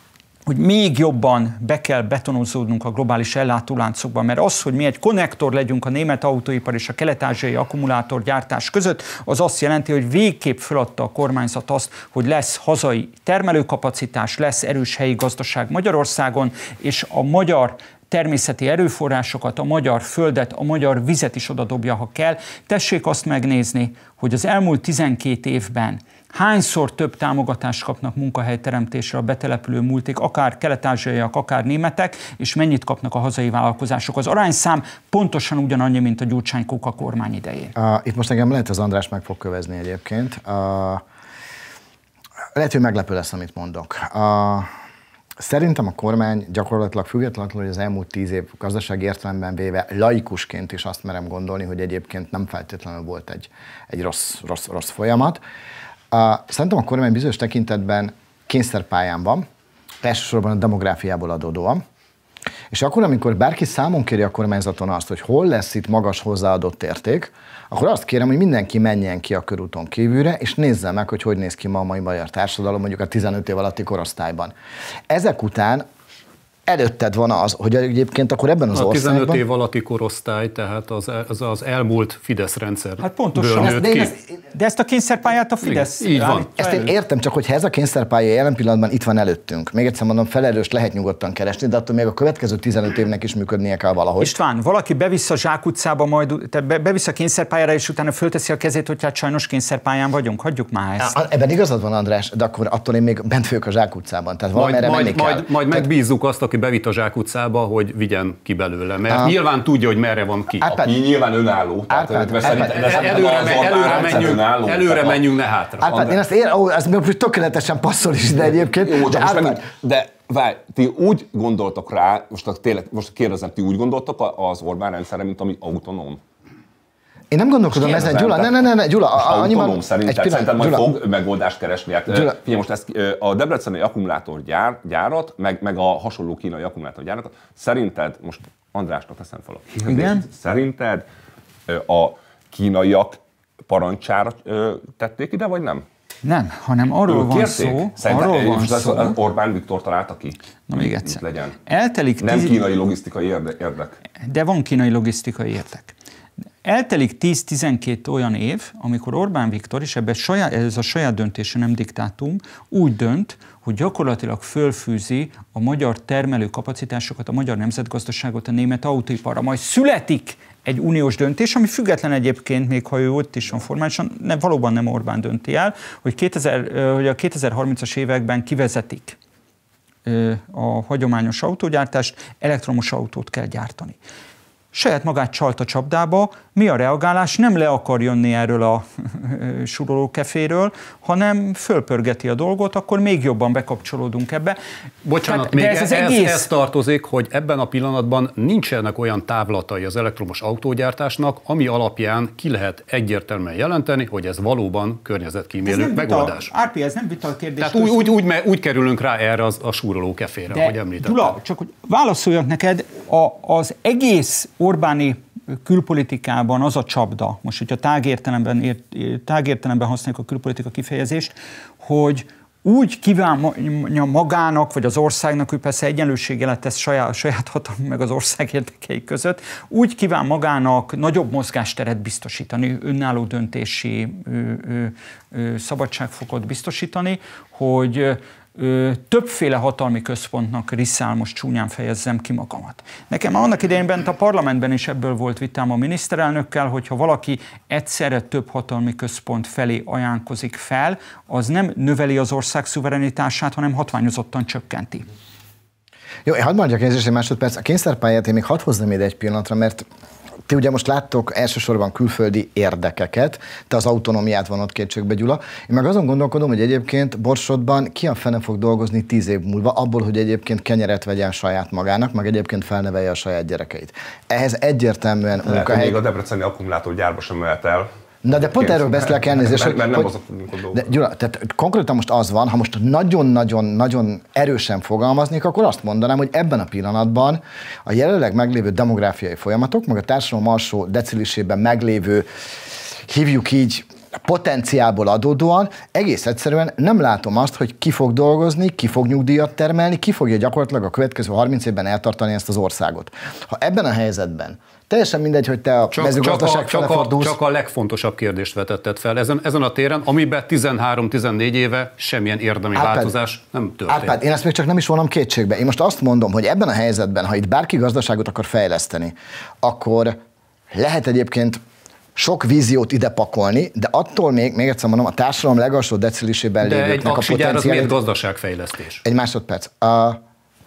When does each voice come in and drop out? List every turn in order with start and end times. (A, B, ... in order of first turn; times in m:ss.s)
0:00.4-0:37.7 A
0:37.8-0:41.0 B
0:42.5-0:44.7 B
0:45.4-0:55.4 B
0:56.1-0:59.4 B
1:00.0-1:01.8 B
1:02.7-1:14.5 B
1:15.1-1:15.8 B
1:16.7-1:19.4 B
1:18.7-1:24.1 C
1:23.0-1:26.9 A
1:23.6-1:24.2 B
1:25.6-1:26.5 C
1:26.6-1:34.3 B
1:34.2-1:41.1 A
1:41.0-1:45.9 B
1:44.5-1:50.7 C
1:49.1-1:49.4 B
1:50.6-1:50.9 B
1:50.6-1:55.2 D
1:51.9-1:54.4 B
1:52.4-1:56.0 C
1:55.8-1:59.6 B
1:58.8-2:06.2 D
2:07.3-2:10.9 B
2:07.7-2:08.6 D
2:09.2-2:21.0 D
2:12.1-2:12.4 B
2:19.8-2:20.2 A
2:21.7-2:25.8 D
2:26.2-2:29.2 A
2:27.1-2:31.6 D
2:30.7-2:32.7 A
2:32.2-2:34.0 D
2:34.2-2:35.9 A
2:36.6-2:59.2 A
3:00.0-3:04.0 A
3:04.7-3:14.6 A
3:15.0-3:26.5 C
3:15.2-3:16.5 A
3:25.6-3:28.0 A
3:27.6-3:31.4 C
3:30.5-4:15.0 A
4:16.2-4:19.8 B
4:20.5-4:36.0 B
4:35.4-4:40.9 D
4:38.2-4:40.1 B
4:40.7-4:52.3 B
4:53.0-5:07.4 B
5:05.9-5:14.2 C
5:12.7-5:13.1 B
5:13.9-5:20.2 B
5:20.7-5:21.6 B
5:22.2-5:27.9 B
5:26.6-5:29.0 C
5:29.0-5:30.2 B